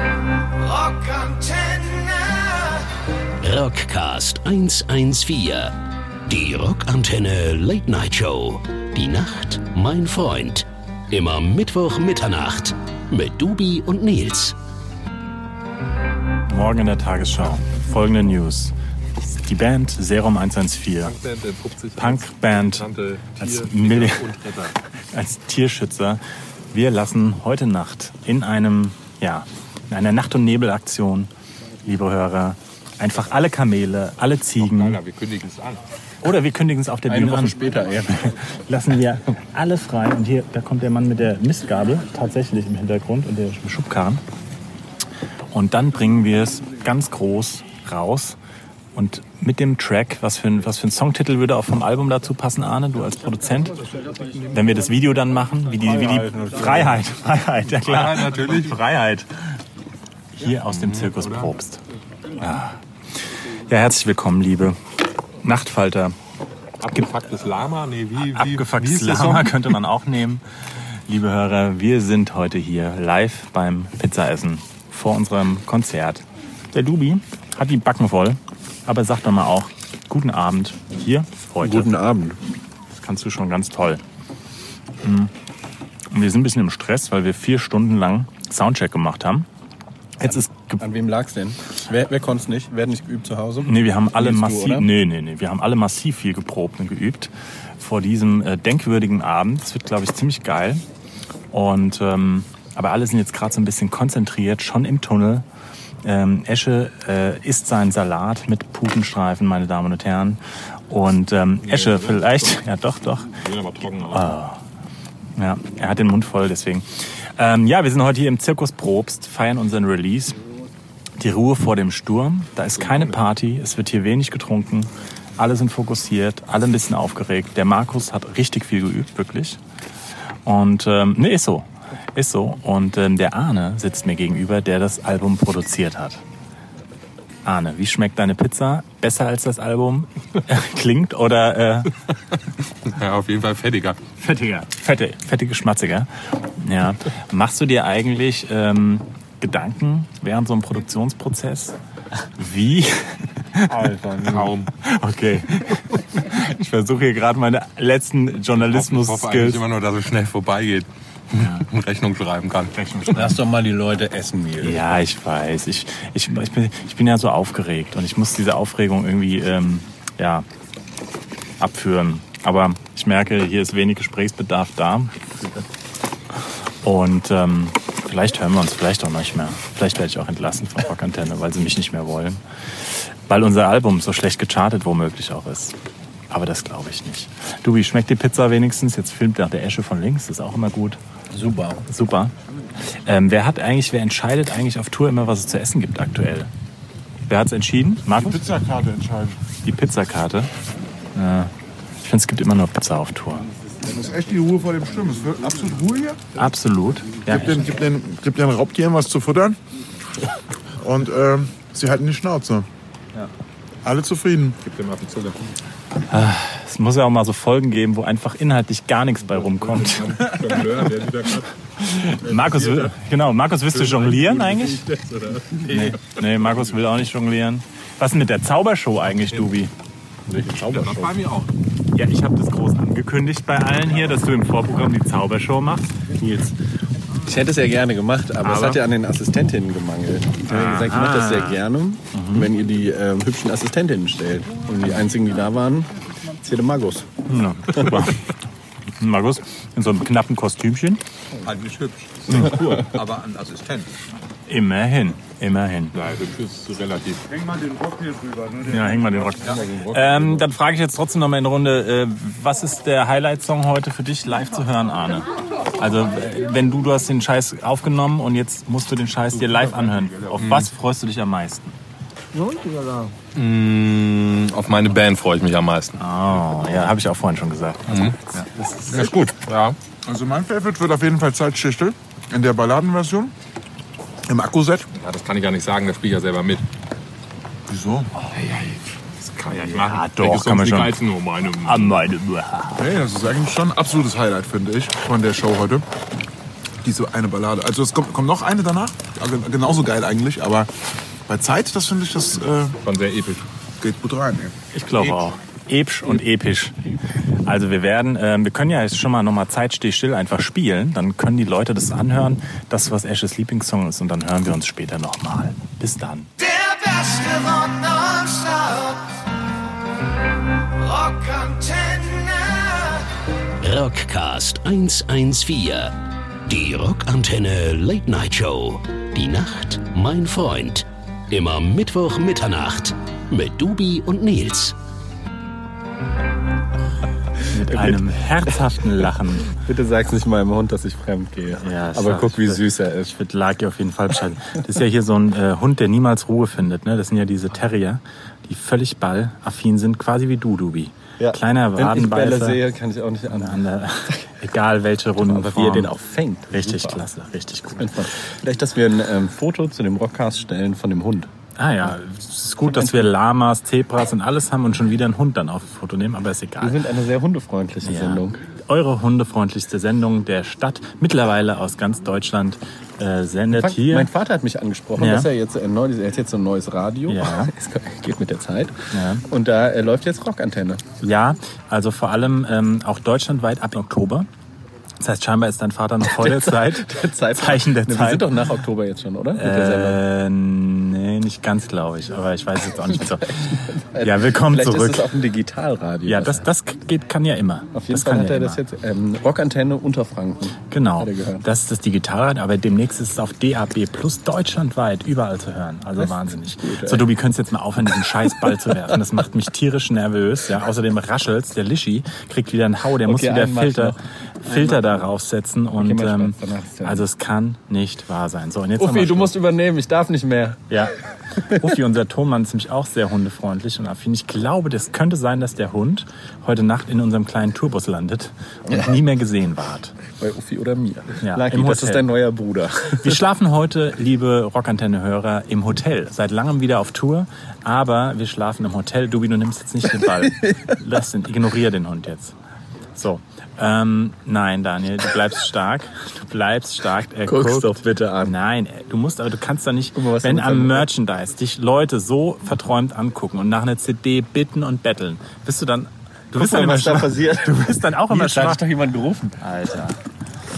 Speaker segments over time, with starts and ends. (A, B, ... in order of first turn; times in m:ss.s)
0:00.6-0:02.8 A
0:03.4-0:05.7 B
0:06.3-0:14.5 B
0:16.5-0:21.2 C
0:21.0-0:24.8 D
0:22.0-0:22.9 C
0:23.4-0:24.3 C
0:25.1-0:31.3 C
0:31.8-0:35.0 C
0:34.6-0:35.8 D
0:36.2-0:44.2 C
0:37.1-0:37.8 D
0:45.5-0:48.4 C
0:48.9-0:53.8 C
0:54.4-0:59.6 C
0:56.0-0:56.9 D
0:57.8-0:58.8 D
1:00.3-1:01.8 C
1:00.7-1:01.5 D
1:02.3-1:02.8 C
1:03.7-1:04.8 C
1:05.4-1:06.2 C
1:06.8-1:09.6 D
1:08.2-1:21.9 C
1:21.6-1:22.4 E
1:22.9-1:24.0 C
1:25.0-1:25.3 C
1:26.1-1:29.5 C
1:30.2-1:30.8 C
1:30.8-1:34.9 E
1:33.6-1:40.8 C
1:41.5-1:45.4 C
1:46.0-1:53.4 C
1:51.7-1:52.4 D
1:53.4-1:54.3 D
1:54.0-1:54.6 C
1:55.4-2:00.4 C
2:01.2-2:09.6 C
2:02.8-2:03.1 D
2:10.4-2:16.2 C
2:17.4-2:21.9 C
2:22.8-2:24.0 D
2:24.2-2:31.8 C
2:32.4-2:33.9 C
2:33.8-2:34.7 D
2:34.4-2:39.6 C
2:38.6-2:43.5 D
2:41.4-2:41.6 C
2:42.7-2:43.4 C
2:43.1-2:44.8 E
2:44.6-2:50.4 C
2:51.6-2:55.3 C
2:56.8-3:05.8 C
3:06.3-3:11.0 C
3:11.3-3:11.8 E
3:11.8-3:12.3 C
3:12.8-3:16.5 C
3:17.3-3:18.5 C
3:18.1-3:19.4 F
3:19.6-3:20.5 C
3:21.1-3:23.5 C
3:23.8-3:26.3 F
3:26.3-3:27.6 C
3:27.2-3:29.6 F
3:30.8-3:32.7 F
3:33.8-3:34.6 F
3:34.6-3:35.4 D
3:36.1-3:40.4 C
3:39.3-3:41.5 D
3:41.8-3:44.8 C
3:42.1-3:42.9 D
3:43.7-3:46.6 D
3:45.7-3:49.7 C
3:50.3-3:51.1 E
3:50.4-3:51.5 D
3:51.9-3:56.5 C
3:57.2-4:07.1 E
3:58.4-3:58.8 C
4:00.5-4:01.6 C
4:02.1-4:02.5 C
4:07.2-4:08.3 C
4:09.0-4:11.0 C
4:11.4-4:13.9 D
4:14.5-4:16.0 C
4:15.9-4:18.4 D
4:18.6-4:31.7 C
4:19.4-4:20.4 D
4:30.4-4:30.6 D
4:32.4-4:33.0 A
4:33.3-4:36.0 D
4:36.0-4:38.5 C
4:37.9-4:39.8 D
4:38.9-4:39.2 F
4:40.0-4:43.3 F
4:44.3-4:44.9 F
4:44.9-4:46.6 D
4:47.7-4:48.1 F
4:48.3-4:52.0 D
4:49.8-4:51.0 C
4:51.6-4:52.8 C
4:52.8-4:55.8 F
4:56.8-5:00.7 F
5:01.3-5:02.8 F
5:02.8-5:03.4 D
5:03.8-5:04.5 F
5:04.7-5:06.8 C
5:07.4-5:16.3 C
5:16.4-5:19.1 A
5:20.7-5:23.0 A
5:23.6-5:25.9 B
5:26.4-5:34.7 B
5:37.5-5:39.6 C
5:37.7-5:38.0 E
5:39.5-5:43.1 E
5:41.6-5:52.6 C
5:51.2-5:53.6 E
5:53.3-5:55.9 C
5:55.2-5:57.0 E
5:56.5-5:58.1 C
5:57.8-6:01.3 E
6:01.6-6:06.8 C
6:06.6-6:08.4 E
6:07.8-6:14.1 C
6:13.5-6:20.8 E
6:15.0-6:15.3 C
6:17.1-6:17.5 C
6:18.9-6:19.2 C
6:21.0-6:24.3 C
6:25.0-6:28.3 C
6:26.0-6:30.0 E
6:29.4-6:35.2 C
6:33.2-6:36.5 E
6:36.0-6:38.6 C
6:37.7-6:41.4 E
6:40.7-6:59.4 C
6:46.0-6:47.1 E
6:53.0-6:55.0 E
6:55.8-6:57.1 E
6:58.8-7:00.7 E
7:00.7-7:09.9 C
7:10.2-7:13.2 E
7:11.2-7:12.1 C
7:13.0-7:22.3 C
7:20.2-7:20.6 E
7:22.9-7:38.6 C
7:27.2-7:28.3 E
7:29.9-7:30.9 E
7:36.3-7:39.4 E
7:39.4-7:40.0 C